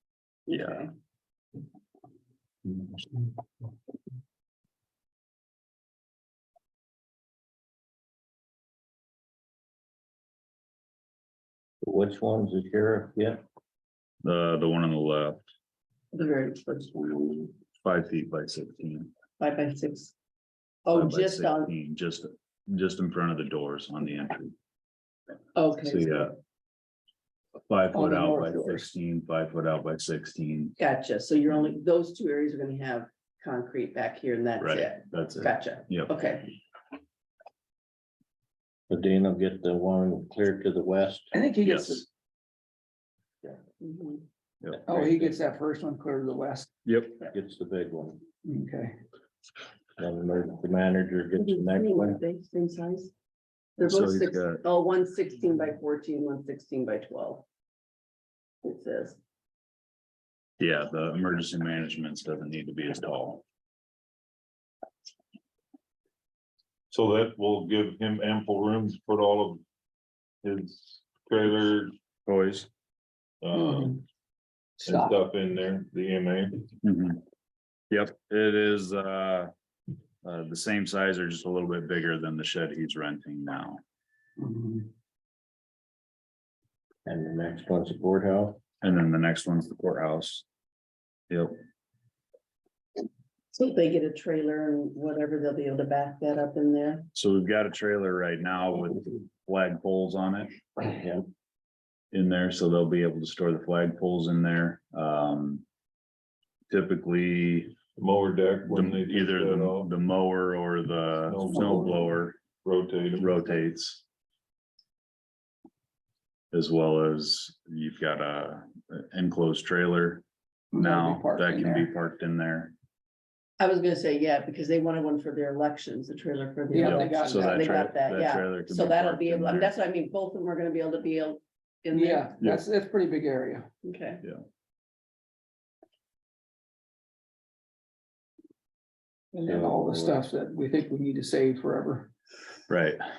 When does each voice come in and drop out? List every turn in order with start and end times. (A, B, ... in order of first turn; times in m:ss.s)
0:00.5-0:00.9 A
0:00.5-0:00.8 B
0:11.8-0:13.4 C
0:14.2-0:15.4 B
0:16.1-0:17.2 A
0:17.3-0:19.1 B
0:19.4-0:20.1 A
0:20.8-0:21.7 A
0:20.9-0:24.5 B
0:25.5-0:26.3 A
0:25.8-0:26.3 B
0:27.7-0:30.8 B
0:27.9-0:28.8 A
0:28.2-0:28.8 D
0:30.8-0:36.5 A
0:34.6-0:36.1 B
0:38.9-0:41.3 C
0:41.3-0:42.0 D
0:41.6-0:42.0 B
0:43.8-0:44.2 A
0:44.6-0:45.3 B
0:44.8-0:46.7 D
0:46.8-0:47.2 B
0:47.3-0:48.2 C
0:48.4-0:49.0 D
0:50.0-0:52.2 C
0:51.4-0:53.1 A
0:53.8-0:57.4 A
0:53.8-0:54.6 B
0:58.6-0:59.2 A
1:00.6-1:03.4 B
1:06.9-1:09.6 E
1:10.4-1:11.9 E
1:12.2-1:12.7 B
1:13.4-1:14.0 E
1:13.5-1:14.0 D
1:14.8-1:15.2 D
1:14.8-1:16.7 E
1:16.8-1:17.2 B
1:17.9-1:19.5 B
1:20.2-1:23.8 B
1:24.4-1:24.9 D
1:27.0-1:28.6 C
1:28.8-1:30.4 B
1:31.3-1:31.5 B
1:33.5-1:37.1 A
1:37.1-1:40.5 B
1:40.8-1:41.2 C
1:42.1-1:45.6 B
1:46.7-1:47.7 B
1:48.0-1:49.9 E
1:48.7-1:52.4 B
1:51.2-1:52.1 E
1:52.6-1:53.4 E
1:53.2-1:54.0 B
1:56.5-2:00.2 B
2:00.7-2:01.9 D
2:00.7-2:02.7 B
2:03.6-2:12.3 A
2:06.7-2:07.7 D
2:06.8-2:09.7 B
2:11.9-2:13.7 D
2:13.8-2:14.2 A
2:19.3-2:22.1 D
2:19.5-2:20.2 C
2:22.7-2:23.0 B